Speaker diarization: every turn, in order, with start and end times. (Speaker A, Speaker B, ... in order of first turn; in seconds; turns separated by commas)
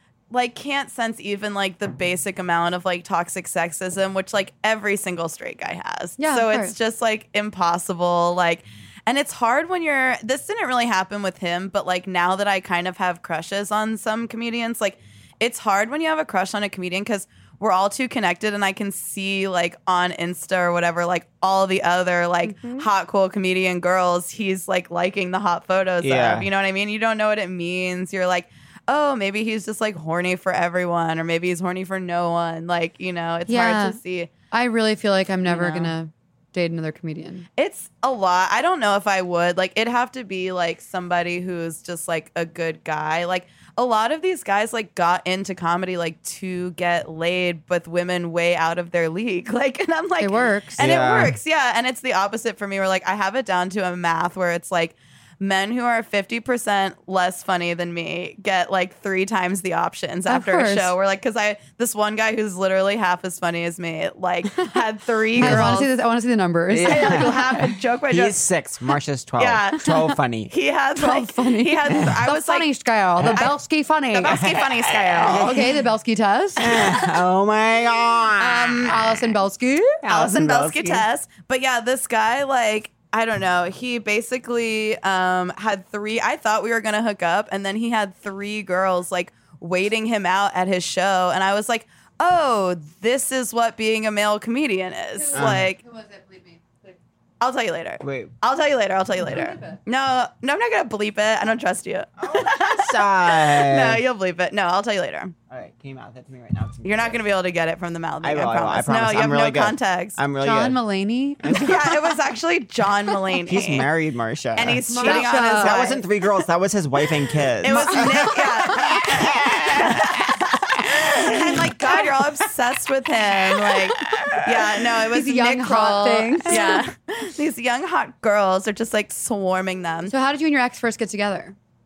Speaker A: 0.3-34.3, Speaker B: 6.2-6.7, Speaker B: 22.4-22.9, Speaker C: 26.0-26.5, Speaker B: 33.5-34.0, Speaker B: 34.5-37.5, Speaker A: 35.5-35.9, Speaker A: 37.6-65.9, Speaker B: 50.2-50.8, Speaker C: 50.8-51.4, Speaker B: 60.3-60.9, Speaker B: 65.4-67.4, Speaker C: 65.4-65.8, Speaker C: 66.7-70.5, Speaker A: 66.8-68.4, Speaker A: 69.4-72.7, Speaker B: 71.0-74.4, Speaker C: 71.9-72.2, Speaker A: 74.1-75.6, Speaker C: 74.3-75.8, Speaker B: 75.3-76.8, Speaker C: 76.6-79.3, Speaker A: 78.4-79.0, Speaker B: 78.8-80.0, Speaker C: 80.0-81.0, Speaker A: 80.1-95.8, Speaker B: 95.1-97.0, Speaker C: 95.3-95.7, Speaker A: 97.4-105.3, Speaker C: 98.0-98.3, Speaker B: 99.2-99.8, Speaker C: 102.2-104.0, Speaker C: 105.5-107.2, Speaker A: 106.8-110.2, Speaker C: 108.2-110.8, Speaker B: 110.4-111.7, Speaker C: 111.4-111.9, Speaker A: 111.5-113.9, Speaker C: 113.4-122.0, Speaker A: 114.5-116.0, Speaker B: 114.9-115.9, Speaker A: 117.6-130.1, Speaker B: 117.7-118.7, Speaker C: 123.5-124.9, Speaker B: 125.1-126.8, Speaker B: 130.1-131.6